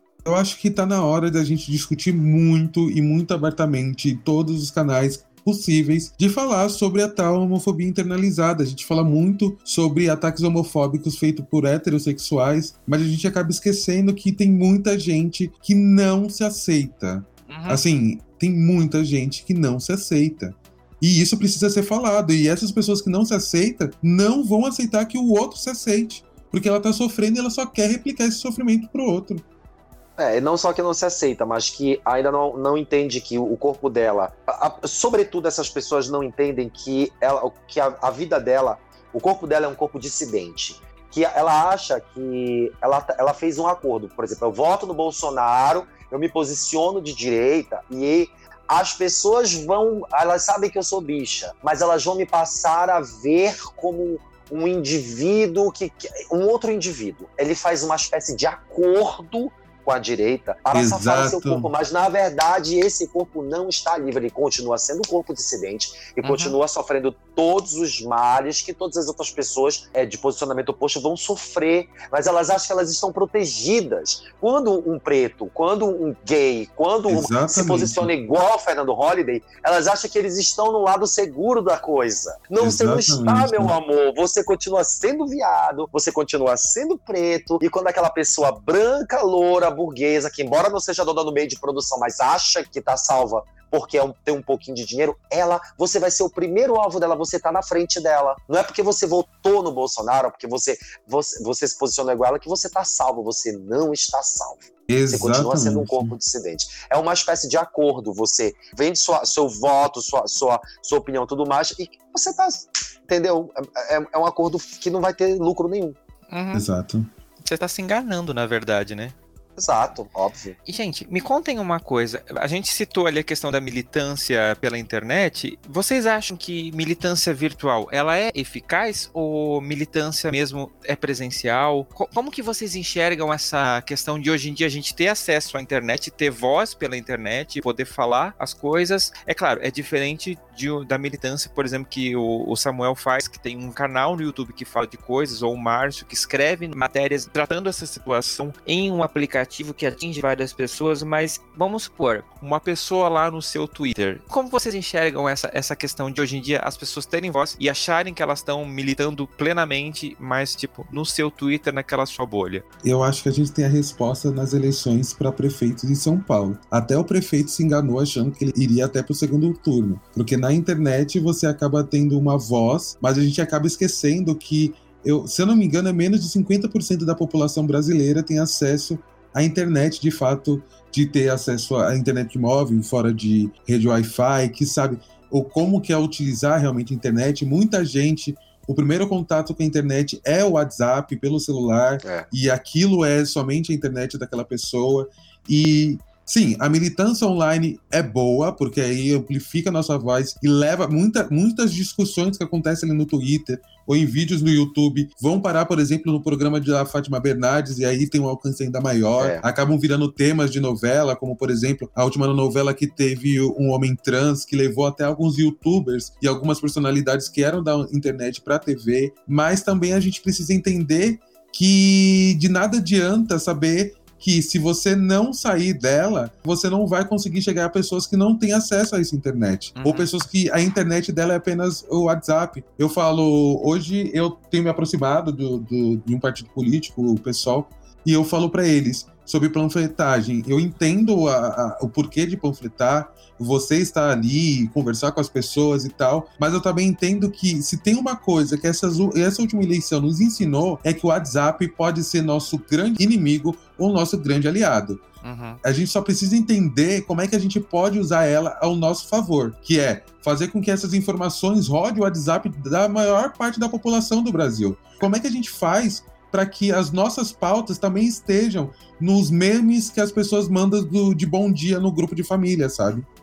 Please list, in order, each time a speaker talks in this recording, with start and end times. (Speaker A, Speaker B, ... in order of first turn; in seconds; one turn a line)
Speaker A: 0.2-29.4
Speaker B: 17.5-17.8
Speaker C: 30.2-116.0
Speaker A: 60.7-61.7
Speaker B: 66.2-66.5
Speaker A: 77.1-78.1
Speaker A: 82.6-83.7
Speaker A: 104.9-106.1
Speaker B: 116.3-116.6
Speaker A: 116.5-117.1
Speaker B: 117.4-119.1
Speaker C: 119.6-120.5
Speaker B: 120.7-162.6
Speaker A: 162.8-255.0
Speaker C: 209.2-209.4
Speaker B: 229.8-230.1
Speaker B: 255.2-255.6
Speaker A: 255.6-273.1